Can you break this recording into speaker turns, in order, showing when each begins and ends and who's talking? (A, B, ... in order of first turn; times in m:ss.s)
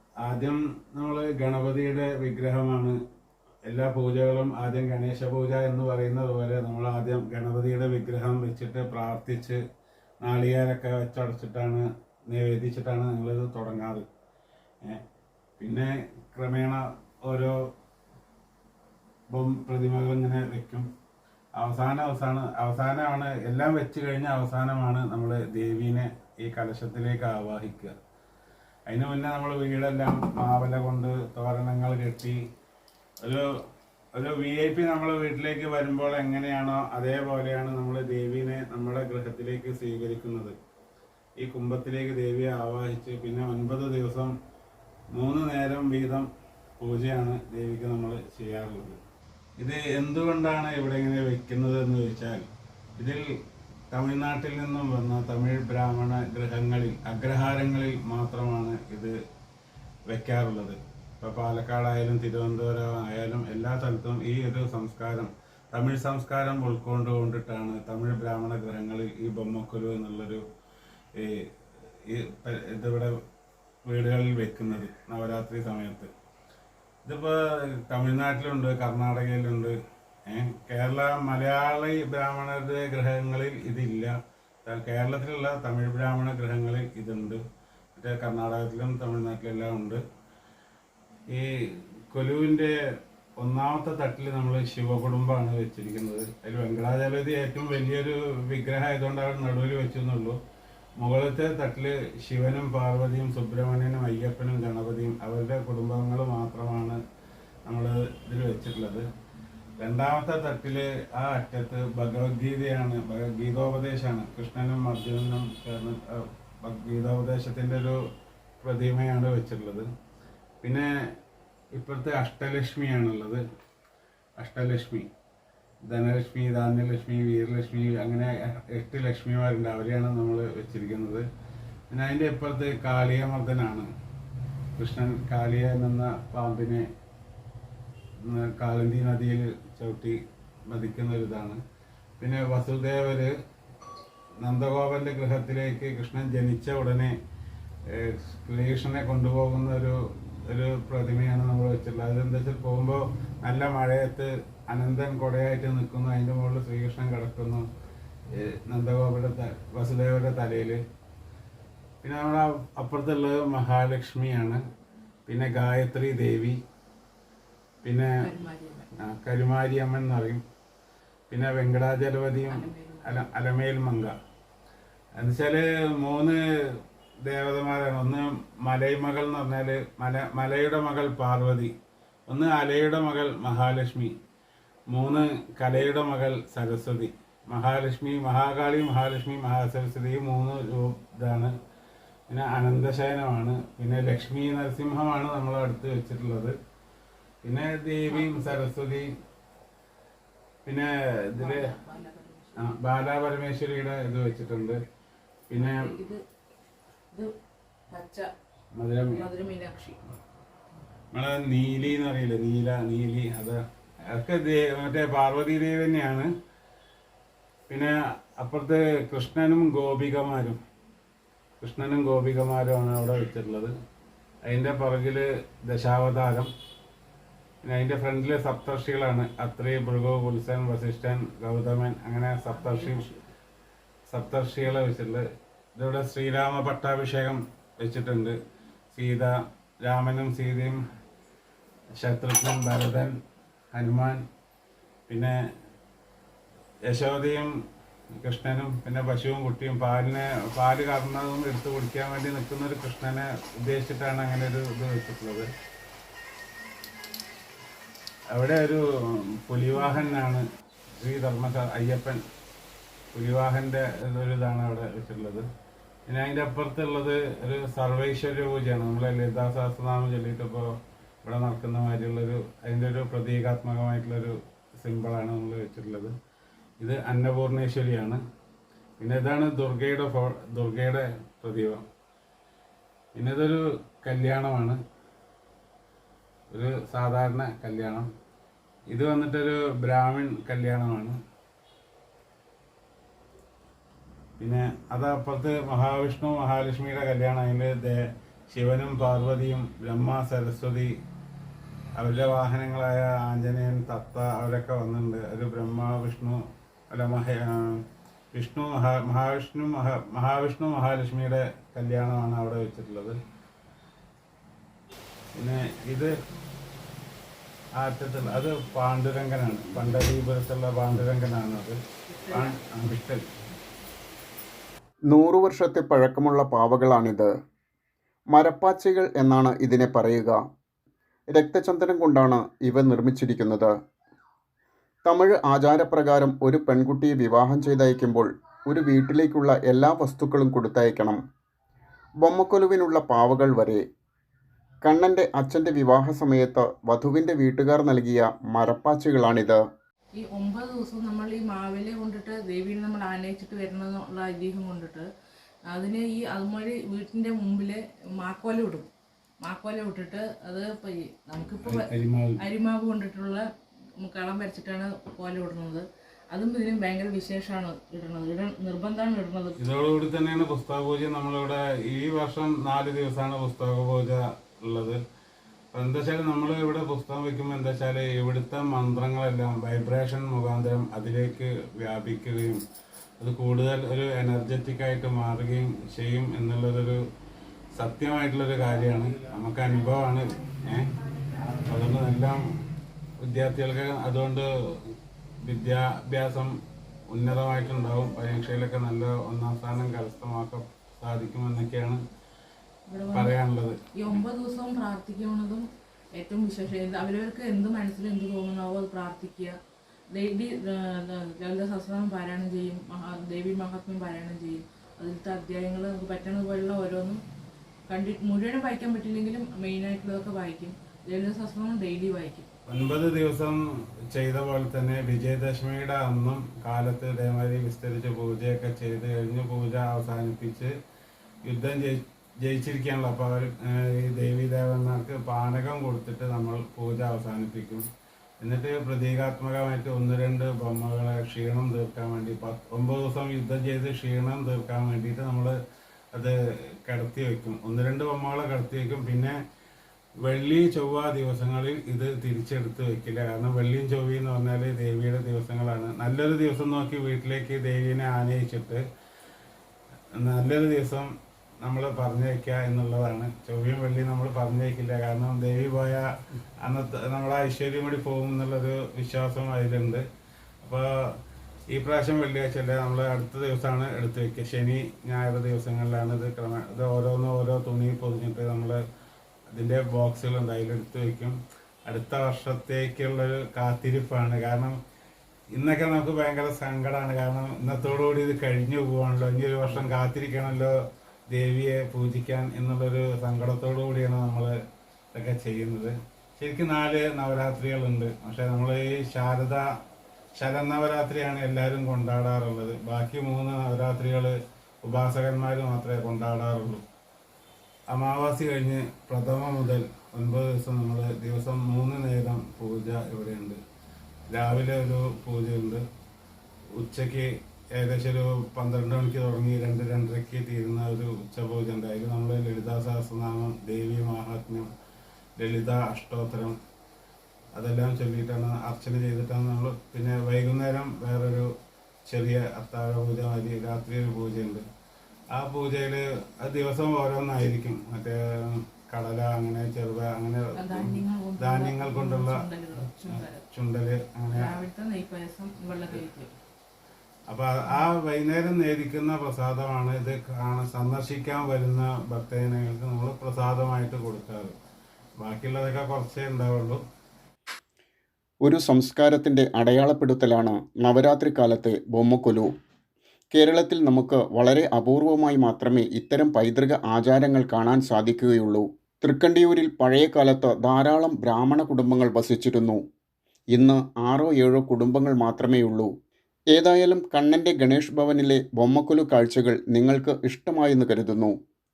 0:00.2-0:03.0 A
0:03.7-0:09.6 A
0:10.2-0:14.0 A
0:15.6-0:17.5 A
0:19.3-0:20.8 A
0:21.6-0:27.9 A
0:28.9-0:32.4 A
0:33.2-0:33.5 A
0:34.1-0:40.5 A
0:41.4-0:44.3 A
0:45.1-0:46.3 A
0:46.8-0:49.0 A
0:49.6-0:52.4 A
0:53.0-0:53.2 A
0:53.9-0:59.1 A
1:00.1-1:10.4 A
1:11.2-1:11.5 A
1:12.0-1:13.2 A
1:13.8-1:16.1 A
1:17.0-1:19.8 A
1:20.3-1:27.4 A
1:28.0-1:30.0 A
1:31.3-1:32.7 A
1:33.4-1:40.4 A
1:41.0-1:47.0 A
1:47.6-1:49.0 A
1:49.8-1:58.0 A
1:58.6-1:59.9 A
2:00.6-2:00.9 A
2:01.7-2:03.4 A
2:04.4-2:05.1 A
2:05.9-2:11.2 A
2:11.9-2:13.9 A
2:14.8-2:16.8 A
2:18.2-2:20.2 A
2:20.7-2:21.6 A
2:22.2-2:23.3 A
2:24.4-2:27.1 A
2:27.9-2:30.0 A
2:30.5-2:37.6 A
2:38.3-2:40.8 A
2:42.0-2:44.6 A
2:45.3-2:46.6 A
2:47.8-2:48.2 A
2:48.2-2:48.9 B
2:49.0-2:50.4 A
2:51.3-2:54.1 A
2:52.5-2:53.2 B
2:55.2-3:01.7 A
3:02.3-3:04.1 A
3:04.9-3:11.5 A
3:12.3-3:16.6 A
3:17.4-3:19.1 A
3:18.1-3:18.7 B
3:20.6-3:21.7 A
3:21.4-3:22.7 B
3:22.6-3:24.8 A
3:25.5-3:25.9 A
3:25.5-3:26.2 B
3:27.9-3:28.3 B
3:28.7-3:29.2 A
3:29.1-3:30.0 B
3:31.1-3:36.3 A
3:37.7-3:40.6 A
3:41.6-3:43.7 A
3:44.4-3:46.5 A
3:47.6-3:53.0 A
3:52.5-3:53.2 B
3:54.1-3:55.2 A
3:55.8-3:58.3 A
3:58.9-4:00.8 A
4:02.0-4:03.1 A
4:03.7-4:04.2 A
4:05.1-4:05.4 A
4:06.9-4:07.5 A
4:08.2-4:15.5 A
4:18.3-4:20.4 A
4:21.0-4:22.2 A
4:23.1-4:25.4 A
4:26.1-4:30.7 A
4:31.2-4:36.1 A
4:36.8-4:38.2 A
4:39.0-4:41.8 A
4:43.1-4:44.8 A
4:46.5-4:48.1 A
4:48.9-4:51.2 A
4:54.4-5:00.9 A
5:02.0-5:06.4 A
5:06.9-5:07.8 A
5:08.3-5:13.2 A
5:15.4-5:16.1 A
5:17.8-5:21.8 A
5:22.1-5:22.6 B
5:22.3-5:23.2 A
5:25.1-5:27.3 C
5:28.3-5:30.4 C
5:31.3-5:33.7 C
5:35.0-5:41.2 C
5:42.2-5:43.8 C
5:44.8-5:49.6 C
5:50.2-5:55.0 B
5:55.7-5:58.9 B
5:59.4-6:03.4 B
6:01.6-6:02.4 A
6:04.0-6:09.6 B
6:09.6-6:15.0 A
6:15.7-6:22.6 A
6:23.2-6:27.0 A
6:27.8-6:30.9 A
6:31.5-6:32.5 A
6:33.2-6:34.5 A
6:35.4-6:36.5 A
6:37.1-6:42.0 A
6:42.9-6:43.4 B
6:43.1-6:43.8 A
6:43.9-6:45.6 B
6:46.2-6:49.5 B
6:50.1-6:57.2 B
6:57.9-7:02.5 B
7:02.6-7:10.7 A
7:11.4-7:17.8 A
7:18.4-7:25.5 A
7:26.1-7:29.4 A
7:30.2-7:38.8 A
7:40.1-7:46.1 A
7:46.6-7:50.0 A
7:50.6-7:51.1 A
7:51.7-7:58.8 A
7:59.5-8:04.7 A
8:05.5-8:10.7 A
8:11.3-8:14.5 A
8:15.1-8:19.7 A
8:20.4-8:26.8 A
8:27.9-8:33.6 A
8:34.3-8:35.8 A
8:36.7-8:44.7 A
8:45.4-8:46.5 A
8:47.5-8:51.5 A
8:52.1-8:54.6 A
8:55.3-9:04.5 A
9:00.6-9:03.4 B
9:04.3-9:06.3 B
9:07.3-9:14.5 A
9:15.2-9:16.8 A
9:18.4-9:22.5 C
9:23.3-9:32.8 C
9:33.5-9:35.9 C
9:36.5-9:41.3 C